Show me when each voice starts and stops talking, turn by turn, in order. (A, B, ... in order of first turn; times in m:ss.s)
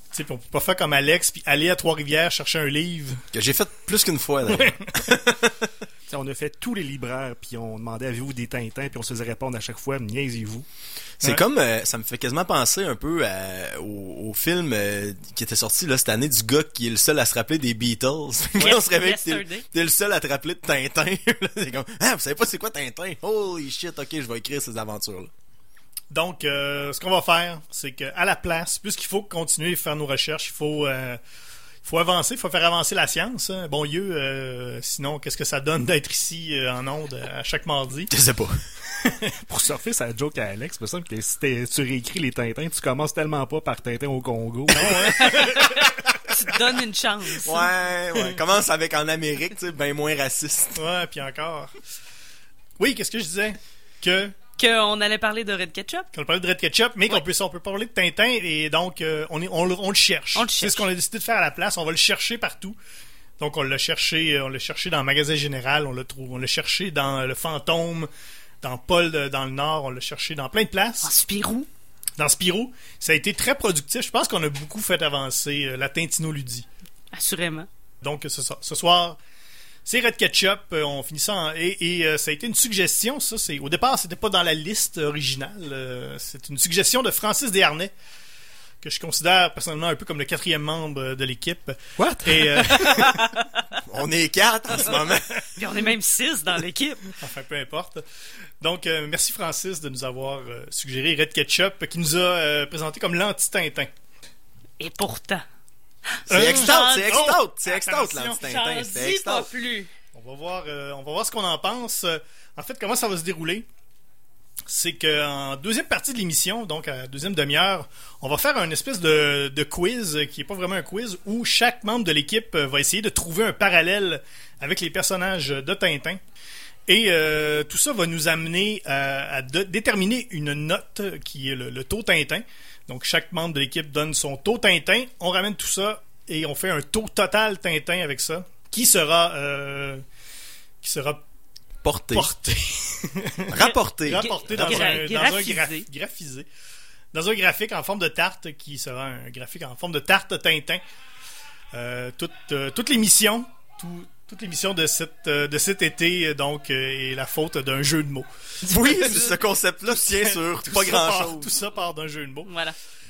0:00.1-0:03.2 A
0:03.3-0:05.6 B
0:06.1-0:10.7 C
0:11.2-0:25.3 B
0:18.6-0:19.6 D
0:26.1-0:31.2 A
0:31.8-0:38.1 A
0:38.1-0:38.6 B
0:39.0-0:39.4 A
0:39.5-0:45.4 C
0:44.7-0:45.8 A
0:45.1-0:47.7 D
0:47.4-0:50.8 B
0:50.8-0:51.8 A
0:52.8-0:54.4 A
0:54.6-0:56.1 D
0:56.1-1:02.8 A
1:00.4-1:00.9 D
1:03.4-1:08.1 A
1:08.6-1:11.1 A
1:11.0-1:11.7 D
1:12.2-1:16.7 A
1:17.1-1:17.7 D
1:18.0-1:19.2 A
1:19.9-1:27.9 A
1:28.8-1:33.3 A
1:32.0-1:32.9 C
1:32.8-1:33.6 D
1:33.8-1:35.4 B
1:35.6-1:37.1 D
1:37.2-1:38.0 A
1:38.6-1:43.9 A
1:44.8-1:45.4 D
1:46.2-1:47.1 D
1:46.3-1:48.4 A
1:46.3-1:49.5 B
1:48.4-1:49.9 D
1:50.1-1:53.7 A
1:54.7-2:06.2 A
2:06.9-2:20.0 A
2:20.8-2:21.2 A
2:21.8-2:22.3 B
2:22.1-2:26.5 A
2:23.5-2:25.0 B
2:23.6-2:25.9 D
2:27.1-2:30.8 A
2:31.7-2:39.4 A
2:38.6-2:41.5 B
2:39.9-2:42.5 A
2:42.5-2:42.8 D